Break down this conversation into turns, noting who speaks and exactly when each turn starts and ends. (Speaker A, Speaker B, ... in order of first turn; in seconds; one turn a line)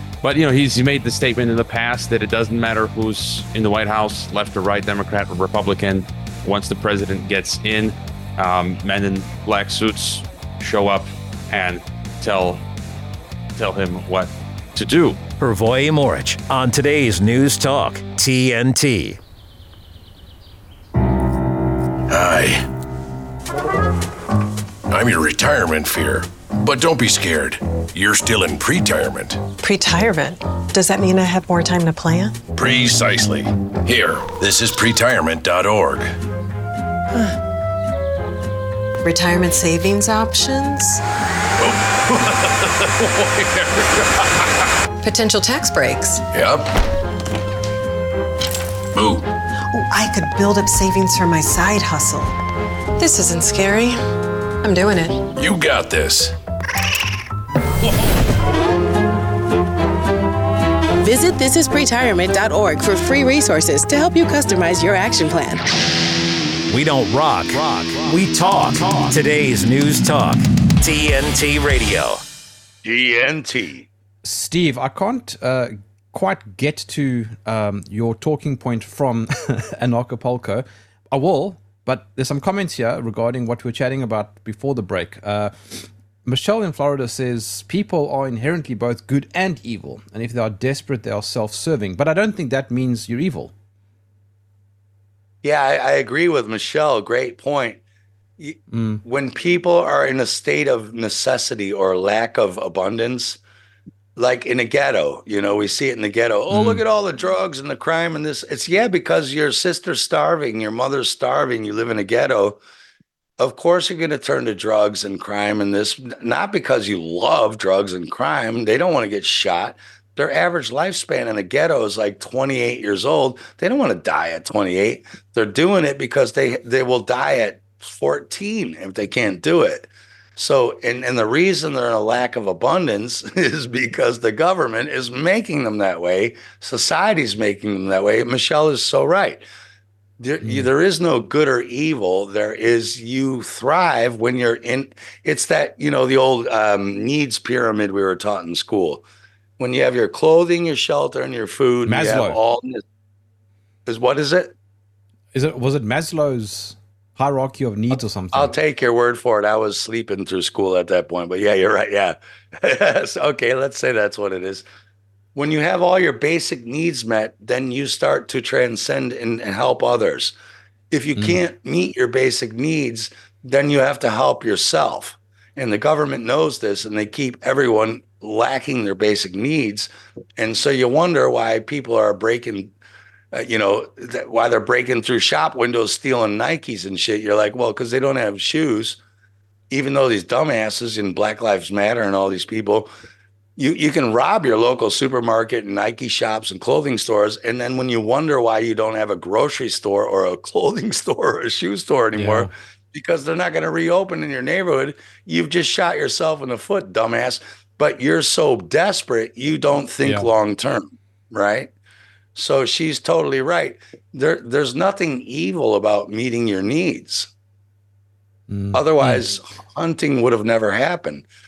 Speaker A: 0.2-12.6
Speaker A: 13.6-15.2
Speaker B: 15.4-19.2
Speaker C: 22.1-22.7
Speaker C: 24.9-29.4
Speaker D: 29.6-32.4
Speaker C: 32.5-36.1
Speaker D: 39.0-41.0
Speaker C: 41.6-44.5
Speaker D: 45.0-46.2
Speaker C: 46.3-46.7
Speaker C: 49.0-49.3
Speaker D: 49.7-52.4
Speaker D: 53.0-54.0
Speaker D: 54.6-55.3
Speaker C: 55.4-56.3
Speaker E: 61.0-65.7
Speaker B: 66.7-72.2
Speaker F: 72.8-73.9
Speaker G: 74.2-93.5
Speaker F: 95.4-97.8
Speaker F: 98.4-103.4
Speaker G: 98.7-99.0
Speaker F: 104.2-112.6
Speaker G: 106.5-106.8
Speaker F: 113.4-139.4
Speaker F: 140.2-149.1
Speaker G: 140.4-140.7
Speaker F: 149.6-152.8
Speaker G: 151.8-152.4
Speaker F: 153.9-154.5
Speaker G: 155.3-158.5
Speaker F: 157.9-164.7
Speaker F: 165.3-170.3
Speaker F: 170.9-182.7
Speaker F: 183.3-189.0
Speaker F: 189.7-192.9
Speaker F: 193.6-211.7
Speaker G: 202.2-202.5
Speaker G: 210.0-210.3
Speaker F: 212.3-217.3
Speaker G: 218.5-219.3
Speaker F: 218.7-221.3